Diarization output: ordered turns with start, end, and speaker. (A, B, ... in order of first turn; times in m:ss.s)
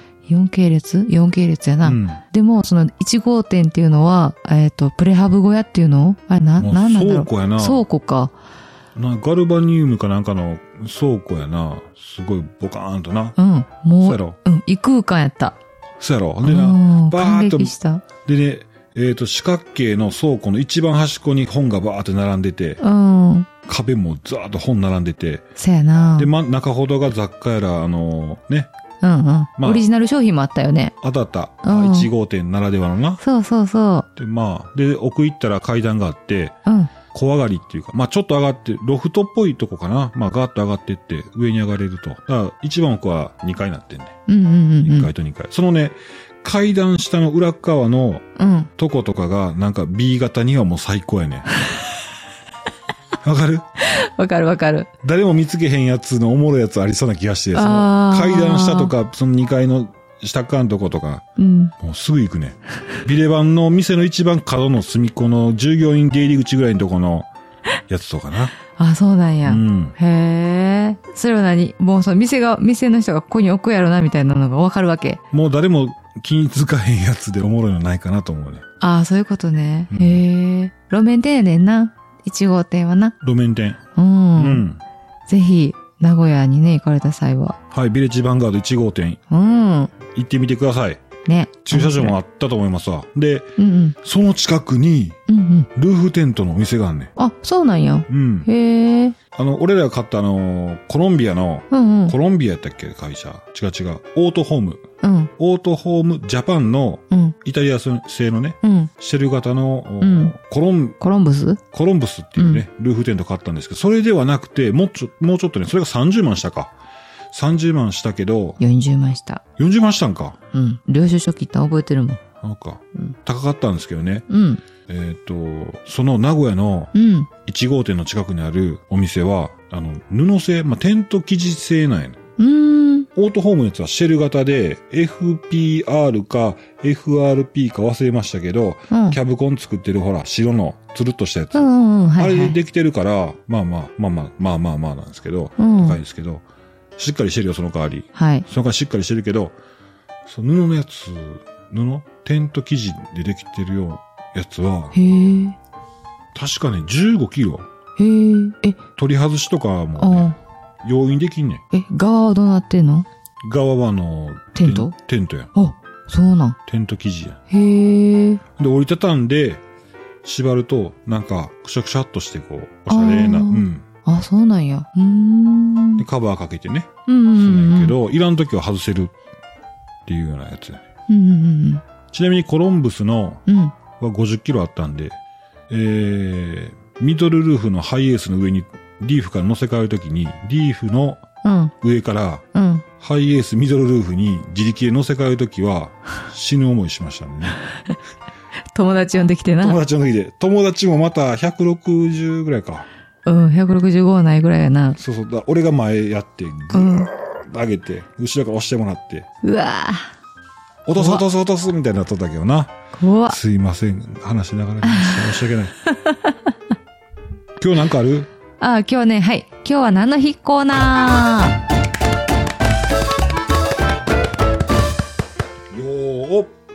0:00.3-0:08.3 A
0:01.8-0:02.2 B
0:06.6-0:07.9 B
0:09.0-0:13.4 B
0:13.4-0:15.6 A
0:14.0-0:14.4 B
0:16.0-0:22.8 B
0:16.4-0:18.0 A
0:22.8-0:23.5 A
0:23.7-0:25.4 B
0:25.6-0:26.3 A
0:26.2-0:28.7 B
0:29.0-0:31.0 A
0:29.6-0:29.8 B
0:31.0-0:33.2 B
0:31.6-0:32.1 A
0:33.2-0:34.1 A
0:34.2-0:36.6 B
0:36.7-0:36.9 A
0:37.1-0:44.2 B
0:44.3-0:45.1 A
0:44.8-0:48.2 B
0:48.4-0:48.7 A
0:48.8-0:51.5 B
0:53.2-0:53.6 B
0:53.8-0:54.9 A
0:55.0-1:01.2 B
0:57.6-0:58.9 A
1:01.4-1:01.7 A
1:01.8-1:07.3 B
1:07.9-1:08.5 B
1:08.7-1:15.2 A
1:09.4-1:10.0 B
1:15.3-1:18.6 B
1:18.8-1:23.2 A
1:19.9-1:20.2 B
1:23.2-1:23.8 B
1:24.0-1:24.6 A
1:24.4-1:24.8 B
1:25.3-1:27.6 A
1:27.7-1:29.2 B
1:29.3-1:29.9 A
1:30.1-1:31.0 B
1:31.2-1:32.2 A
1:31.7-1:35.2 B
1:33.6-1:34.0 A
1:35.3-1:35.7 A
1:35.8-1:37.1 B
1:37.2-1:39.2 A
1:38.1-1:38.5 B
1:39.3-1:44.8 B
1:41.7-1:42.2 A
1:45.0-1:45.3 A
1:45.4-1:51.0 B
1:47.1-1:47.4 A
1:48.6-1:48.9 A
1:50.0-1:50.3 A
1:51.0-1:51.6 A
1:51.7-1:56.7 B
1:52.4-1:52.6 A
1:57.3-1:58.6 B
1:58.6-1:59.4 A
1:59.6-2:00.4 B
2:00.5-2:02.2 A
2:02.4-2:04.3 B
2:04.3-2:04.6 A
2:04.9-2:06.9 B
2:06.9-2:07.3 A
2:07.5-2:12.2 B
2:12.4-2:13.1 A
2:13.2-2:21.7 B
2:18.9-2:19.2 A
2:21.5-2:22.6 A
2:22.2-2:26.4 B
2:25.6-2:26.0 A
2:27.0-2:29.6 B
2:28.1-2:28.5 A
2:30.3-2:35.0 B
2:34.9-2:35.6 A
2:36.3-2:37.7 B
2:38.0-2:38.8 A
2:39.0-2:41.6 B
2:40.0-2:40.4 A
2:41.7-2:43.1 A
2:43.4-2:45.5 B
2:44.6-2:44.9 A
2:45.5-2:46.6 A
2:46.7-2:47.4 B
2:47.5-2:48.4 A
2:48.6-2:49.6 B
2:50.2-2:53.8 B
2:52.9-2:56.0 A
2:56.0-2:59.1 B
2:57.1-2:58.0 A
3:00.1-3:00.8 B
3:01.1-3:01.8 A
3:02.1-3:03.4 B
3:03.5-3:03.8 A
3:04.0-3:05.2 B
3:05.7-3:11.2 B
3:11.4-3:11.7 A
3:11.8-3:12.4 B
3:12.5-3:12.8 A
3:13.0-3:17.6 B
3:18.7-3:19.8 A
3:19.6-3:22.9 B
3:23.2-3:25.0 A
3:25.0-3:29.3 B
3:26.7-3:27.1 A
3:29.4-3:30.1 A
3:30.9-3:32.7 B
3:30.9-3:31.2 A
3:32.9-3:33.4 A
3:33.3-3:35.8 B
3:34.8-3:36.4 A
3:37.6-3:38.3 B
3:38.6-3:41.6 A
3:45.7-3:46.5 B